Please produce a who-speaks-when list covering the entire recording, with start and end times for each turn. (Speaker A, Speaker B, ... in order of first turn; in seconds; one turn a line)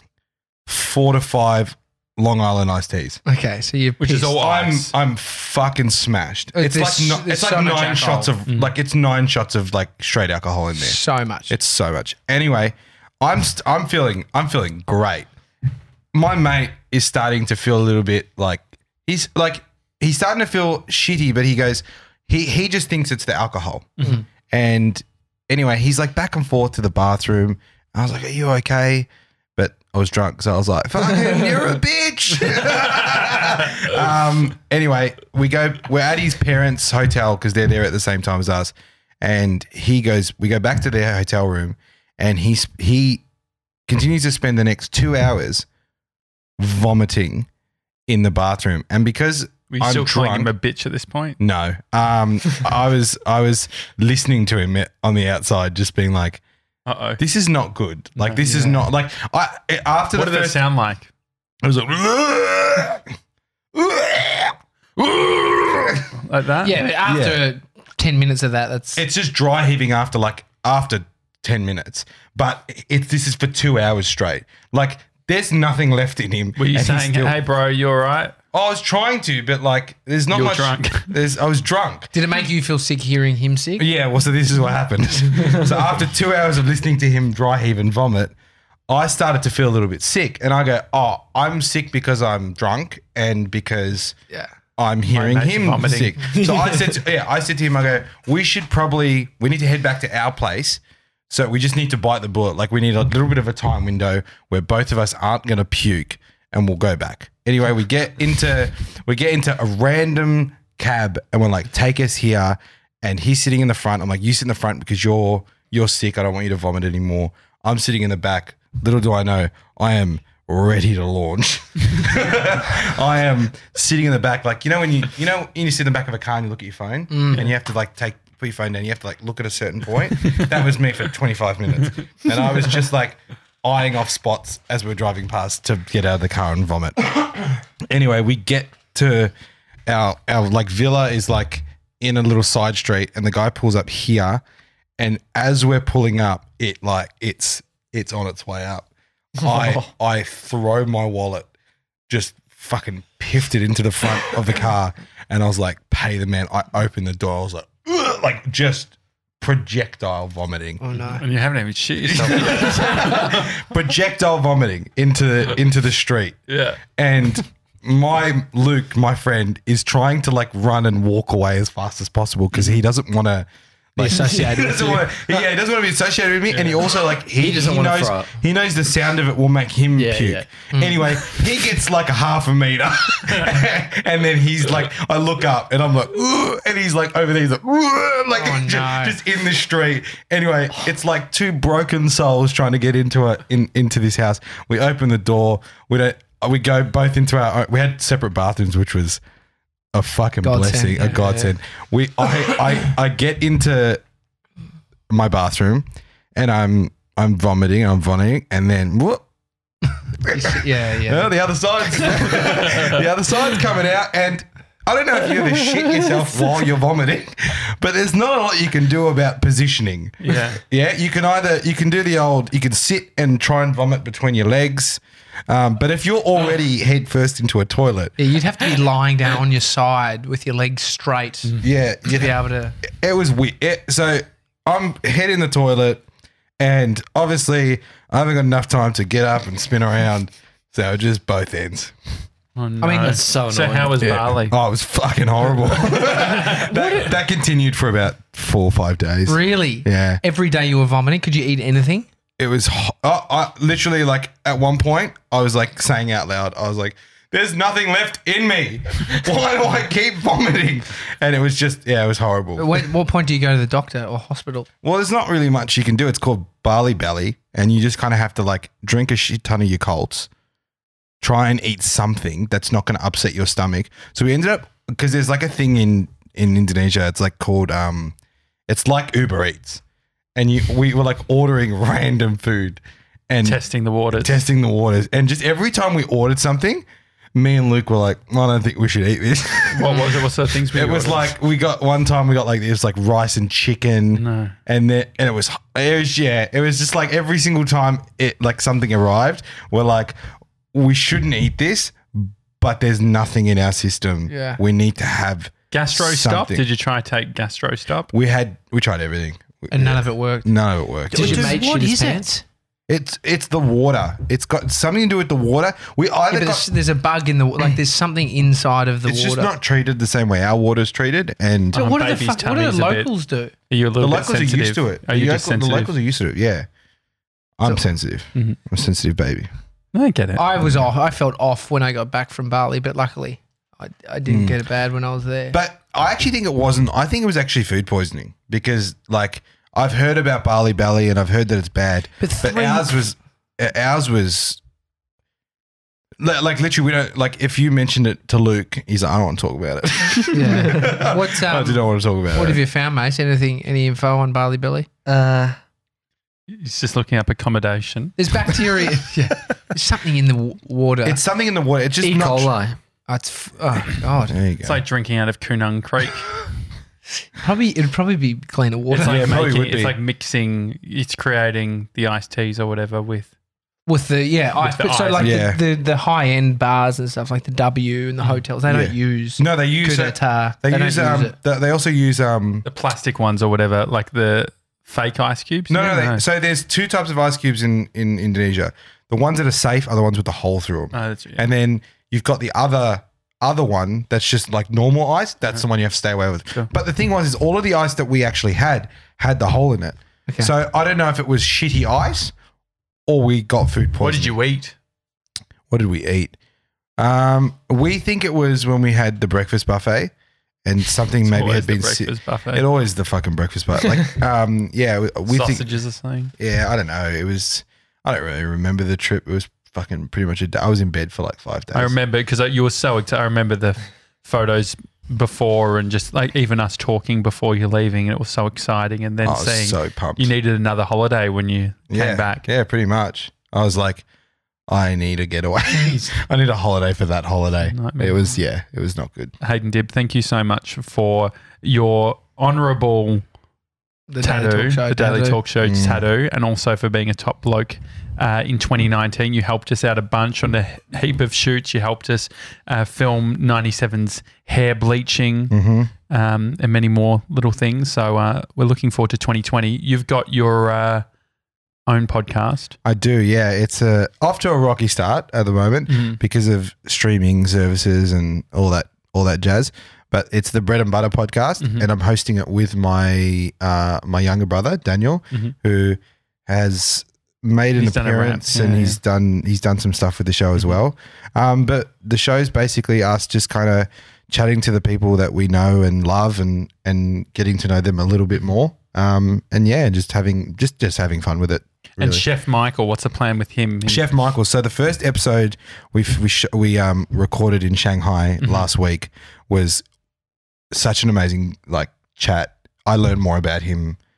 Speaker A: 0.7-3.2
Speaker B: 3.3-4.3
Speaker C: 4.0-4.9
Speaker A: 4.2-15.3
Speaker B: 6.5-8.3
Speaker B: 10.8-11.5
Speaker A: 16.1-43.2
Speaker A: 43.9-45.7
Speaker A: 46.6-47.5
Speaker A: 48.1-50.5
Speaker C: 49.7-51.4
Speaker A: 51.4-56.4
Speaker C: 56.9-57.2
Speaker A: 57.2-60.6
Speaker B: 58.4-58.8
Speaker C: 60.1-61.1
Speaker A: 61.6-63.1
Speaker A: 63.7-66.1
Speaker C: 66.2-66.9
Speaker B: 66.6-69.0
Speaker A: 67.0-67.5
Speaker A: 69.0-77.4
Speaker C: 76.6-78.3
Speaker A: 78.5-82.1
Speaker C: 80.3-81.1
Speaker B: 82.1-83.9
Speaker A: 83.8-88.3
Speaker A: 88.9-94.2
Speaker A: 94.8-139.3
Speaker C: 95.1-96.2
Speaker D: 96.3-97.0
Speaker B: 127.1-127.4
Speaker A: 139.9-144.4
Speaker A: 145.0-151.5
Speaker D: 149.4-149.9
Speaker A: 152.1-160.8
Speaker B: 160.8-161.2
Speaker C: 161.2-163.5
Speaker A: 162.0-166.4
Speaker C: 166.5-166.8
Speaker A: 167.0-199.2
Speaker B: 174.0-175.1
Speaker C: 176.5-176.9
Speaker D: 177.3-178.3
Speaker D: 180.0-180.5
Speaker B: 180.7-181.0
Speaker B: 188.3-189.2
Speaker A: 199.9-204.0
Speaker B: 200.4-201.2
Speaker D: 201.2-201.5
Speaker A: 205.1-209.2
Speaker A: 210.1-228.2
Speaker B: 210.3-211.3
Speaker C: 212.7-213.0
Speaker C: 220.2-220.6
Speaker B: 228.2-231.6
Speaker A: 231.6-236.0
Speaker B: 232.1-232.8
Speaker A: 236.6-241.9
Speaker C: 242.6-244.6
Speaker B: 242.8-243.2
Speaker D: 242.9-244.2
Speaker A: 244.0-250.2
Speaker B: 249.3-252.1
Speaker A: 252.4-262.9
Speaker B: 262.6-264.7
Speaker A: 264.8-270.3
Speaker A: 271.2-278.2
Speaker A: 278.7-279.8
Speaker A: 280.4-283.6
Speaker C: 283.4-284.4
Speaker A: 284.2-300.2
Speaker C: 289.7-291.4
Speaker C: 294.1-294.5
Speaker A: 300.7-306.6
Speaker B: 304.3-304.6
Speaker C: 305.7-308.1
Speaker A: 308.1-311.6
Speaker B: 309.7-310.5
Speaker B: 311.1-312.4
Speaker D: 311.1-312.3
Speaker A: 312.9-316.7
Speaker B: 316.3-319.5
Speaker A: 319.1-321.8
Speaker C: 321.7-323.1
Speaker B: 321.7-323.5
Speaker C: 323.7-325.9
Speaker A: 324.0-326.7
Speaker A: 327.6-329.5
Speaker C: 329.9-330.4
Speaker B: 330.4-335.6
Speaker A: 334.3-334.6
Speaker A: 335.5-344.6
Speaker B: 342.2-343.0
Speaker A: 346.2-352.6
Speaker B: 350.3-351.8
Speaker B: 352.3-354.9
Speaker D: 355.1-355.6
Speaker C: 356.5-359.3
Speaker B: 358.2-361.2
Speaker A: 361.1-362.5
Speaker D: 362.0-362.8
Speaker B: 363.1-364.4
Speaker A: 364.3-364.8
Speaker C: 364.6-366.3
Speaker B: 367.4-369.4
Speaker C: 368.9-373.3
Speaker A: 369.0-370.0
Speaker B: 373.9-381.4
Speaker C: 374.6-375.4
Speaker A: 375.2-375.6
Speaker A: 378.7-382.7
Speaker C: 382.7-386.2
Speaker A: 385.7-402.3
Speaker C: 390.9-391.5
Speaker A: 403.1-404.4
Speaker C: 404.0-404.8
Speaker A: 405.7-406.4
Speaker A: 407.0-410.1
Speaker A: 410.6-415.6
Speaker C: 411.2-412.7
Speaker C: 415.3-416.3
Speaker A: 416.4-421.9
Speaker C: 421.7-432.4
Speaker A: 429.2-430.3
Speaker A: 431.9-434.0
Speaker A: 434.7-439.4
Speaker D: 435.8-436.1
Speaker C: 437.6-438.2
Speaker C: 439.4-443.2
Speaker B: 444.1-445.4
Speaker C: 444.2-455.6
Speaker A: 445.6-446.1
Speaker A: 455.5-455.9
Speaker C: 456.1-461.1
Speaker C: 461.9-462.8
Speaker A: 462.8-492.2
Speaker C: 465.9-466.2
Speaker C: 471.6-471.9
Speaker C: 477.8-479.0
Speaker C: 492.0-494.0
Speaker A: 493.9-499.8
Speaker A: 500.7-504.0